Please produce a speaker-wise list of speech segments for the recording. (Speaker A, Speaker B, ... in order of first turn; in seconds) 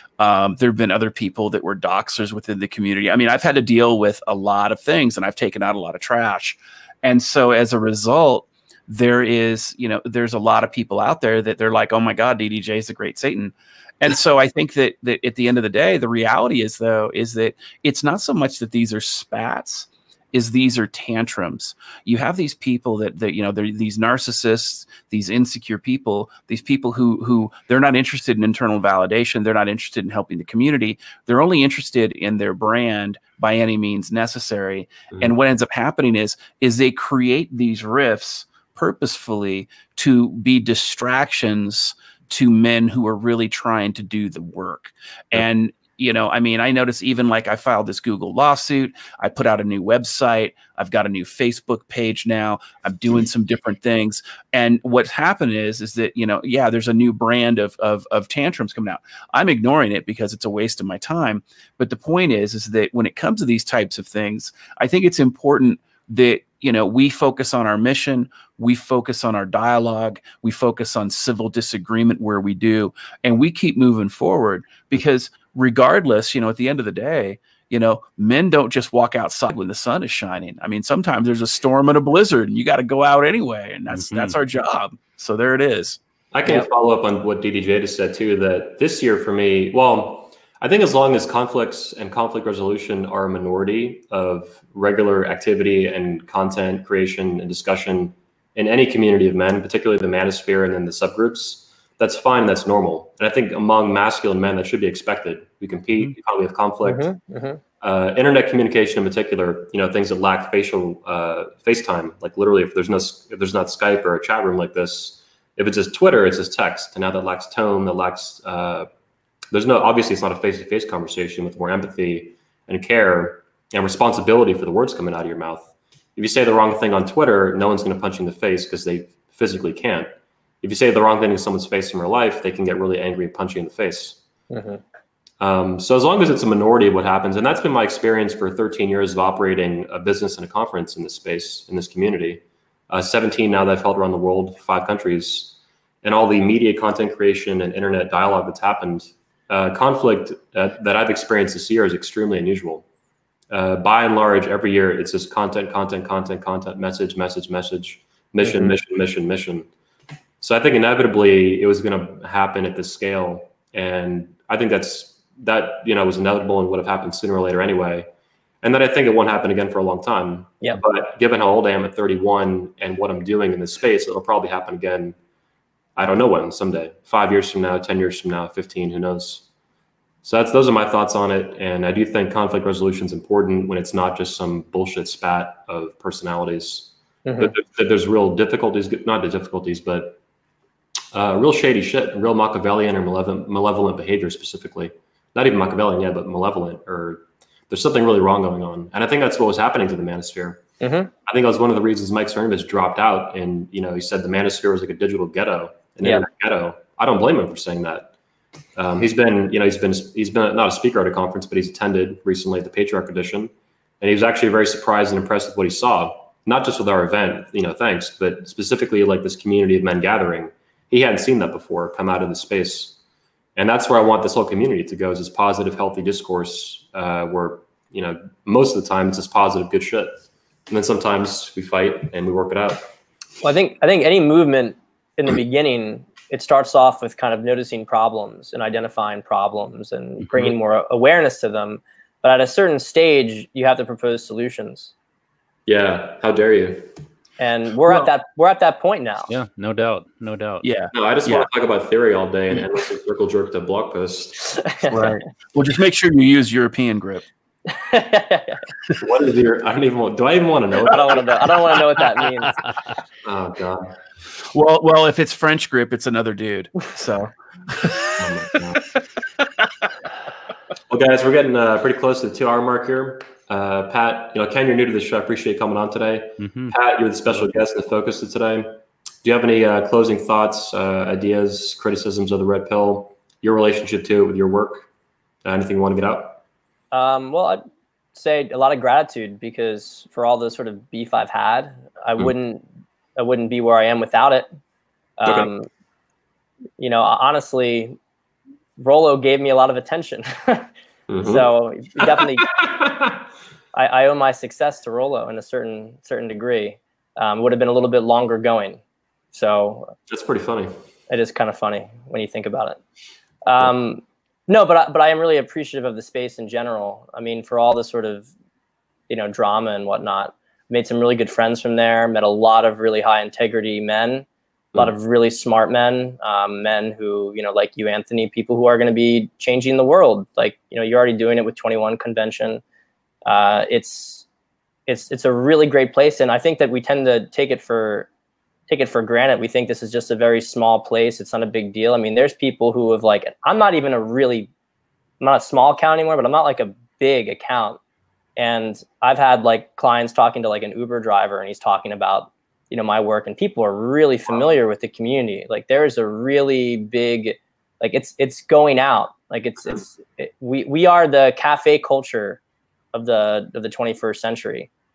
Speaker A: 0.2-86.0, 250.6-251.5, 254.9-257.3, 264.5-268.8
Speaker B: 83.9-84.3, 249.3-250.7, 276.4-276.7
Speaker C: 86.3-107.1, 107.8-118.9, 119.5-130.1, 130.6-134.2, 135.4-152.8, 153.5-159.7, 160.4-168.1, 168.6-175.1, 175.9-179.4, 180.2-190.2, 191.1-200.6, 201.3-208.1, 208.8-222.9, 223.6-232.9, 245.7-246.8, 250.9-254.5, 259.0-261.2, 263.2-263.9, 268.2-268.8, 270.9-284.9, 285.4-286.4, 295.2-295.5, 301.1-303.2, 310.1-310.7
Speaker D: 106.8-107.6, 134.5-134.8, 158.4-158.8, 187.2-187.5, 200.8-201.1, 233.4-244.9, 247.4-249.3, 254.7-255.1, 257.7-258.6, 260.8-262.6, 286.9-287.6, 288.1-292.6, 293.1-294.5, 295.2-295.7, 296.8-298.0, 298.8-300.7, 301.2-302.6, 303.7-308.8, 309.3-309.9, 311.1-312.8, 313.4-318.3, 319.1-324.3, 324.8-332.6, 333.3-334.3, 334.9-338.1, 338.7-344.5, 345.2-347.8, 348.4-362.4, 362.9-364.7